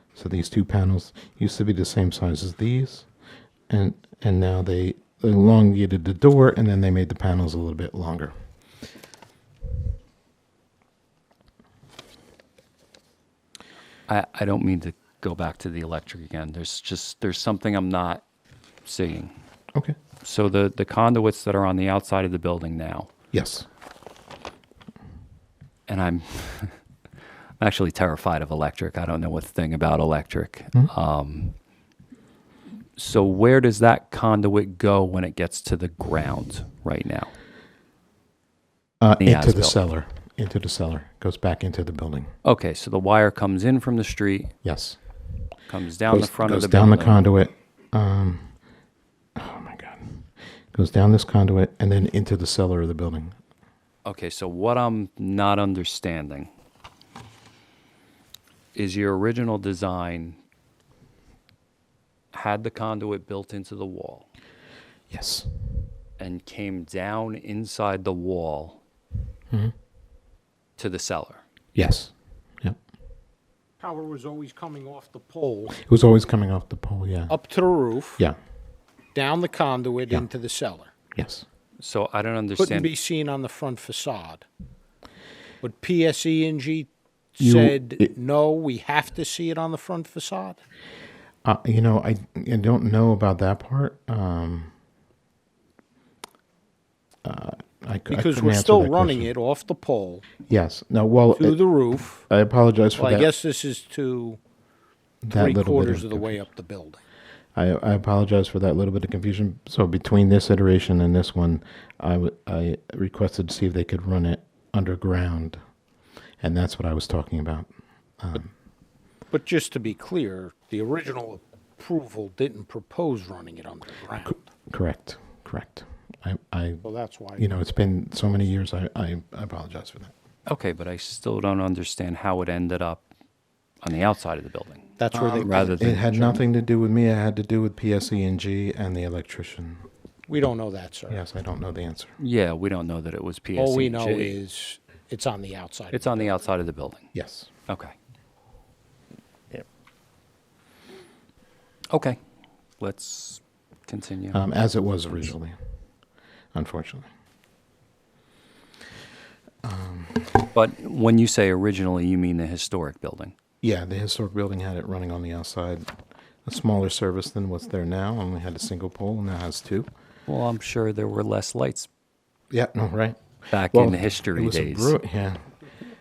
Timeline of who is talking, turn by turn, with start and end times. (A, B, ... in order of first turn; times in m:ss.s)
0:00.1-0:03.1 A
0:03.7-0:08.3 A
0:14.1-0:18.2 B
0:18.9-0:19.3 B
0:20.2-0:23.1 B
0:23.3-0:23.7 A
0:25.9-0:26.7 B
0:27.6-0:31.6 B
0:33.0-0:37.3 B
0:39.0-0:42.3 A
0:39.2-0:39.8 B
0:42.4-0:44.5 B
0:44.6-0:45.0 A
0:45.7-0:47.2 B
0:46.1-0:48.6 A
0:49.4-0:53.4 A
0:54.1-0:56.5 B
0:58.8-1:00.4 B
1:02.3-1:04.3 B
1:05.1-1:05.5 A
1:06.2-1:08.8 B
1:10.8-1:11.4 B
1:11.8-1:12.8 A
1:13.8-1:15.8 C
1:15.8-1:17.4 A
1:17.3-1:18.2 C
1:19.1-1:20.9 C
1:21.2-1:21.5 A
1:21.8-1:22.9 B
1:22.6-1:24.5 C
1:25.6-1:30.6 C
1:27.4-1:28.1 A
1:31.4-1:34.7 A
1:37.2-1:39.3 A
1:38.1-1:40.2 C
1:40.5-1:41.6 A
1:41.4-1:42.3 C
1:42.1-1:43.3 A
1:43.0-1:44.4 C
1:45.2-1:46.4 A
1:45.3-1:47.0 C
1:47.6-1:55.6 A
1:56.4-1:58.5 A
1:59.3-2:04.4 C
2:04.3-2:06.8 A
2:06.8-2:07.5 C
2:07.4-2:10.1 A
2:10.5-2:13.1 B
2:13.8-2:16.1 B
2:15.0-2:16.4 C
2:15.1-2:19.8 A
2:20.3-2:21.2 C
2:21.1-2:22.1 A
2:22.2-2:24.4 B
2:23.6-2:26.3 C
2:25.9-2:27.0 B
2:27.1-2:27.5 A
2:27.7-2:28.0 B
2:31.9-2:32.2 B
2:32.8-2:34.4 B
2:34.3-2:35.6 A
2:36.5-2:37.1 A
2:39.6-2:40.5 A
2:40.5-2:43.3 B
2:43.6-2:45.9 A
2:46.4-2:49.9 A
2:50.3-2:51.9 B
2:52.5-2:55.5 A
2:53.5-2:55.0 B